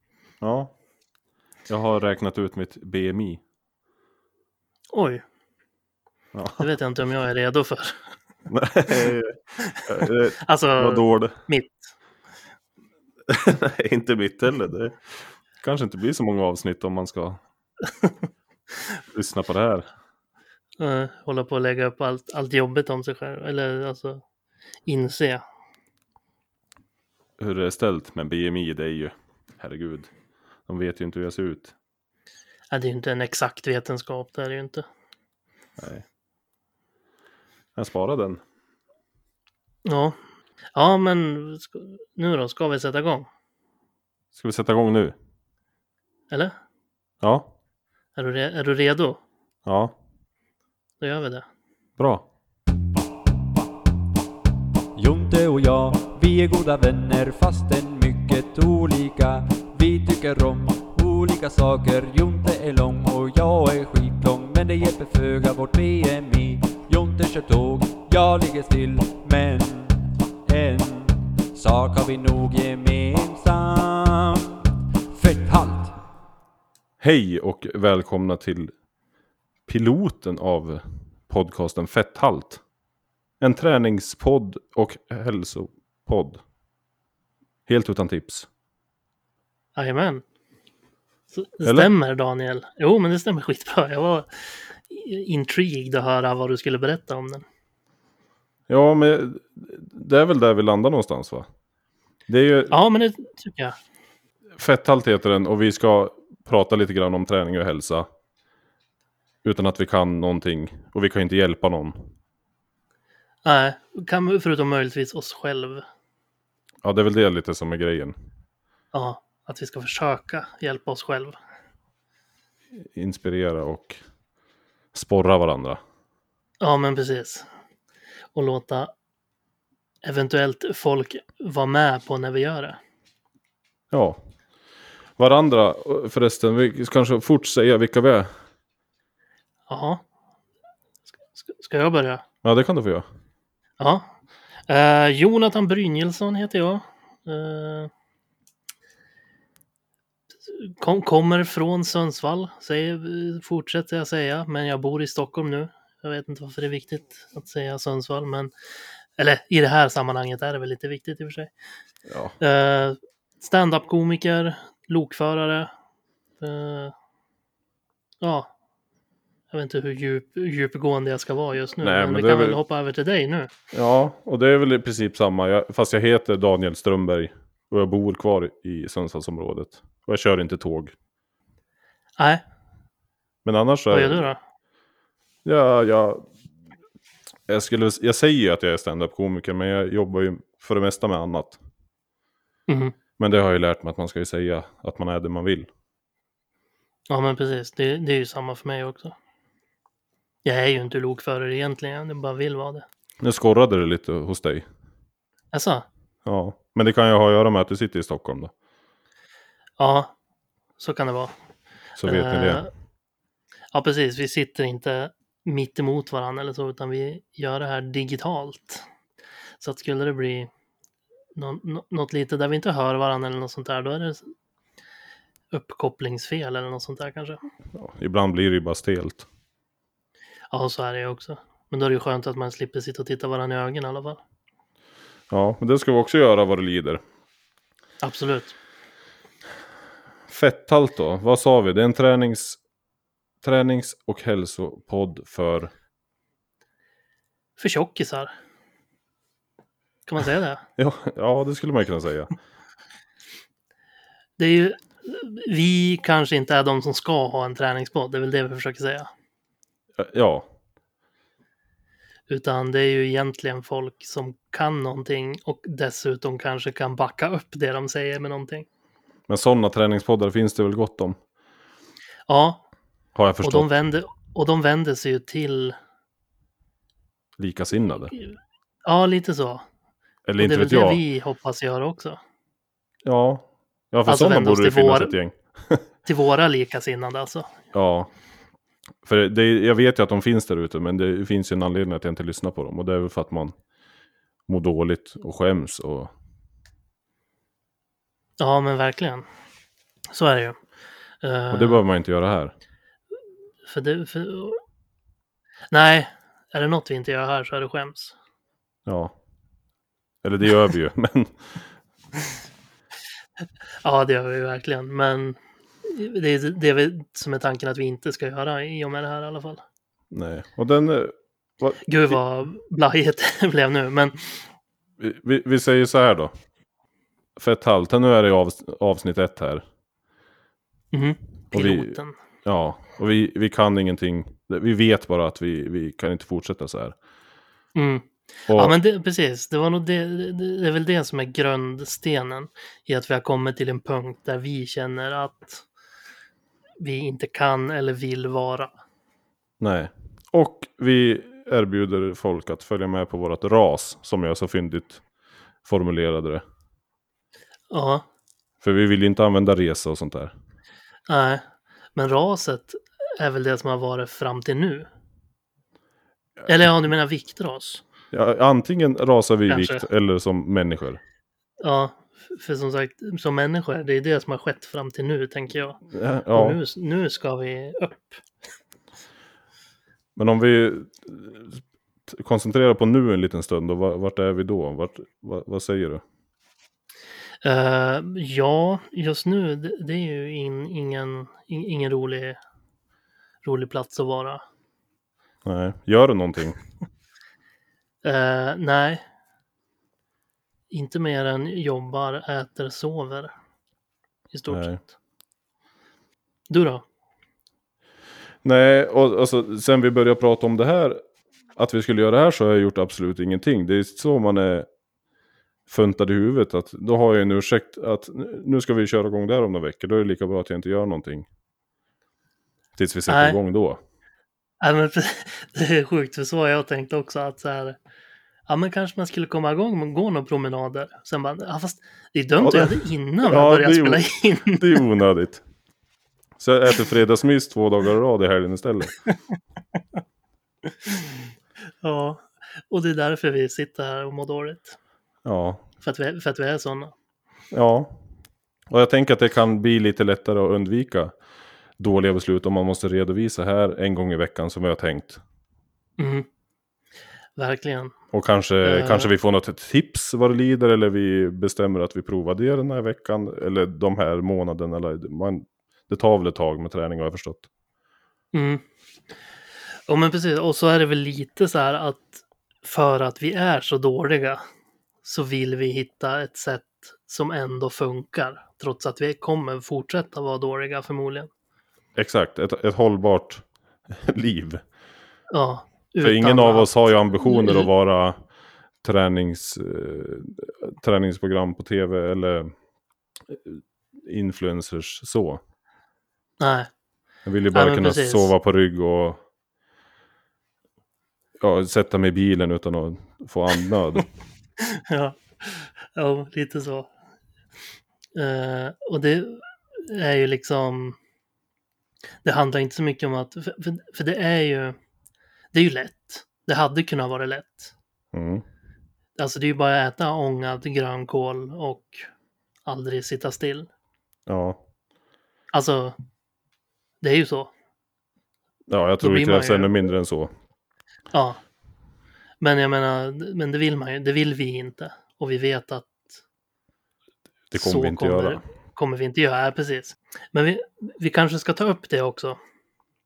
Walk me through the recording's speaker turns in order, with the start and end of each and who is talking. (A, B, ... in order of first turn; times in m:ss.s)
0:00.4-0:00.7 A
0:01.7-0:03.4 A
0:04.9-0:05.2 B
0:06.3-0:06.7 A
0:06.6-0:08.0 B
0:08.5-0:11.4 A
0:09.6-0:11.9 B
0:13.3-0:15.0 A
0:15.6-0:17.4 A
0:17.9-0:18.1 B
0:19.1-0:19.9 A
0:20.8-0:24.2 B
0:24.9-0:25.4 B
0:27.4-0:30.1 A
0:30.7-0:31.7 A
0:32.7-0:34.9 B
0:35.8-0:36.0 A
0:37.8-0:38.4 A
0:39.9-0:40.2 B
0:40.8-0:43.3 B
0:44.3-0:45.1 A
0:46.3-0:46.6 B
0:47.2-0:47.5 A
0:48.2-0:49.2 B
0:49.7-0:49.9 A
0:51.0-0:51.5 B
0:52.0-0:52.2 A
0:55.0-1:16.0 C
1:17.0-1:18.7 A
1:19.7-1:22.6 A
1:23.4-1:26.4 A
1:27.7-1:28.5 A
1:29.8-1:30.2 B
1:31.3-1:34.3 B
1:31.6-1:31.9 A
1:34.9-1:37.4 B
1:38.7-1:41.5 A
1:42.3-1:42.7 A
1:42.7-1:43.8 B
1:44.6-1:48.1 A
1:49.4-1:52.1 A
1:53.4-1:55.8 B
1:56.8-1:58.2 A
1:58.9-2:01.4 B
2:02.8-2:04.0 A
2:04.9-2:05.8 A
2:06.6-2:07.5 B
2:08.4-2:08.9 B
2:10.0-2:12.8 B
2:13.9-2:14.2 A
2:15.2-2:18.3 A
2:19.7-2:20.0 B
2:21.4-2:22.2 B
2:22.4-2:23.1 A
2:23.8-2:24.1 B
2:24.7-2:27.9 B
2:30.5-2:38.5 B
2:39.2-2:41.5 B
2:42.1-2:42.4 A
2:42.4-2:45.7 B
2:46.4-2:47.0 B
2:48.2-2:48.5 B
2:49.5-2:53.5 B
2:51.8-2:52.6 A
2:53.7-3:00.9 A
3:02.2-3:02.4 B
3:03.4-3:04.3 A
3:03.9-3:04.4 B
3:05.4-3:06.3 A
3:07.5-3:11.6 A
3:12.7-3:13.0 B
3:13.2-3:15.7 A
3:17.1-3:19.2 B
3:20.4-3:22.9 B
3:23.2-3:24.7 A
3:25.5-3:25.9 B
3:26.2-3:28.5 A
3:29.8-3:30.1 B
3:30.8-3:31.3 B
3:32.0-3:32.6 A
3:32.0-3:32.7 B
3:33.7-3:38.8 B
3:39.6-3:40.5 B
3:41.4-3:44.3 B
3:45.5-3:47.4 B
3:47.7-3:49.3 A
3:50.5-3:54.2 B
3:55.3-3:57.0 A
3:58.0-3:58.6 B
4:00.3-4:02.6 A
4:03.4-4:05.7 A
4:07.6-4:08.3 B
4:10.1-4:10.6 B
4:10.8-4:12.3 A
4:14.4-4:19.1 B
4:20.0-4:20.5 A
4:22.3-4:28.7 B
4:29.3-4:31.2 A
4:32.3-4:32.6 B
4:33.2-4:33.7 A
4:33.4-4:35.8 B
4:37.4-4:38.1 A
4:38.8-4:39.6 B
4:40.3-4:41.0 A
4:40.4-4:42.2 B
4:43.0-4:45.8 A
4:44.1-4:45.2 B
4:46.1-4:47.5 B
4:47.7-4:48.1 A
4:49.0-4:53.6 A
4:54.5-4:56.1 A
4:58.4-4:59.3 B
5:00.1-5:00.6 B
5:01.2-5:01.8 B
5:01.5-5:02.5 A
5:03.6-5:04.6 B
5:05.7-5:08.2 B
5:08.9-5:09.1 A
5:10.2-5:11.6 A
5:13.8-5:19.6 B
5:20.1-5:22.2 A
5:21.9-5:24.5 B
5:25.0-5:26.3 A
5:27.4-5:29.6 A
5:30.9-5:32.2 B
5:31.5-5:37.0 A
5:37.8-5:45.6 B
5:38.5-5:38.8 A
5:46.8-5:48.7 B
5:49.6-5:55.0 A
5:55.6-5:56.4 A
5:57.7-5:58.0 B
5:58.6-6:00.3 A
6:01.1-6:01.4 B
6:02.0-6:04.9 B
6:06.5-6:07.8 B
6:08.1-6:11.0 A
6:09.5-6:09.9 B
6:11.6-6:15.8 B
6:15.9-6:16.6 A
6:16.3-6:18.2 B
6:20.2-6:26.0 A
6:27.4-6:32.4 B
6:33.4-6:34.4 B
6:35.4-6:36.6 A
6:38.0-6:39.0 B
6:40.7-6:43.3 B
6:44.3-6:44.9 B
6:44.5-6:44.8 A
6:46.5-6:46.8 B
6:48.4-6:51.0 A
6:51.6-6:54.7 A
6:55.7-7:01.3 A
7:02.8-7:03.8 A
7:03.1-7:03.4 B
7:04.6-7:07.8 B
7:08.5-7:14.8 B
7:12.4-7:15.4 A
7:16.4-7:18.9 A
7:20.8-7:21.1 B
7:21.8-7:24.8 B
7:25.2-7:25.6 A
7:25.8-7:26.9 B
7:27.5-7:28.0 A
7:28.7-7:31.1 A
7:31.8-7:35.2 A
7:36.0-7:36.3 B
7:37.4-7:38.0 B
7:38.1-7:47.5 A
7:38.6-7:39.1 B
7:48.3-7:48.6 B
7:49.9-7:54.4 B
7:55.0-8:01.3 B
8:02.0-8:04.6 A
8:05.3-8:07.7 B
8:06.0-8:08.2 A
8:08.8-8:12.5 A
8:13.3-8:15.4 A
8:16.4-8:16.7 B
8:17.3-8:19.2 A
8:17.5-8:18.3 B
8:21.4-8:24.1 A
8:24.6-8:26.9 B
8:28.2-8:31.0 B
8:32.2-8:34.8 B
8:35.5-8:37.7 B
8:38.1-8:38.4 A
8:39.2-8:42.1 B
8:42.7-8:43.7 B
8:44.3-8:44.6 A
8:45.5-8:46.0 B
8:47.0-8:47.5 B
8:48.7-8:50.3 A
8:49.0-8:49.7 B
8:51.1-8:51.4 B
8:52.4-8:56.1 B
8:57.5-8:58.4 A
8:57.6-9:02.4 B